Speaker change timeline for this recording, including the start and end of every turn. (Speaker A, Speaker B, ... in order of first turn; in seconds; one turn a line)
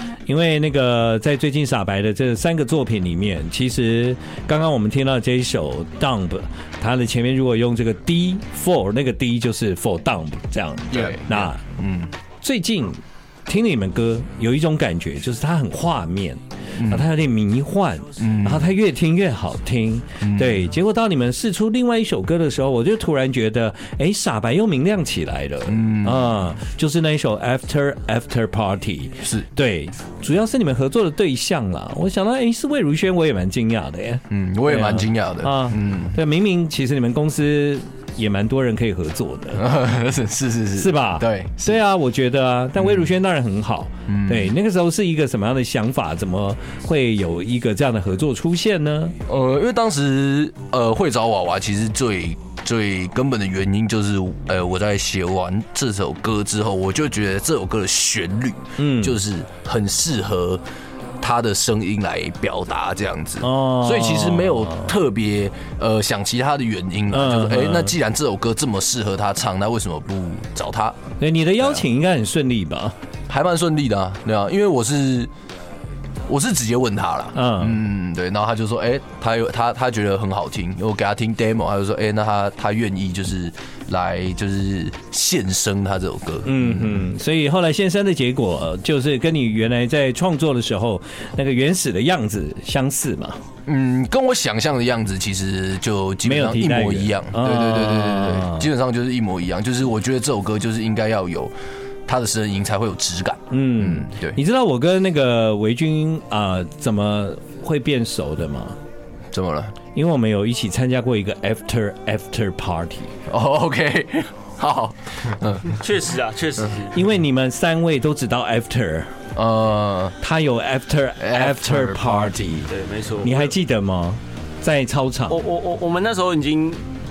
Speaker A: 0.2-11.6
Speaker B: 10.9-12.1
Speaker A: 12.4-39.6
Speaker B: 16.8-17.1
Speaker B: 18.2-18.7
Speaker B: 20.2-20.6
Speaker B: 25.6-26.4
Speaker B: 34.3-36.2
Speaker B: 39.5-41.7
Speaker A: 40.8-49.1
Speaker B: 42.8-43.1
Speaker B: 44.1-44.5
Speaker B: 49.2-60.6
Speaker A: 58.8-59.2
Speaker B: 61.2-71.0
Speaker A: 63.4-64.9
Speaker A: 67.1-67.9
Speaker A: 71.2-72.9
Speaker B: 73.3-75.3
Speaker B: 76.3-87.1
Speaker A: 77.3-77.8
Speaker A: 86.4-93.4
Speaker B: 93.7-101.5
Speaker A: 96.2-98.7
Speaker B: 102.0-104.4
Speaker A: 103.5-108.8
Speaker B: 109.3-109.7
Speaker A: 109.9-113.1
Speaker B: 113.3-115.8
Speaker C: 115.7-117.0
Speaker A: 116.9-119.1
Speaker B: 119.3-120.2
Speaker A: 120.2-122.7
Speaker B: 121.2-122.4
Speaker C: 122.7-123.5
Speaker A: 123.2-125.4
Speaker C: 125.3-126.8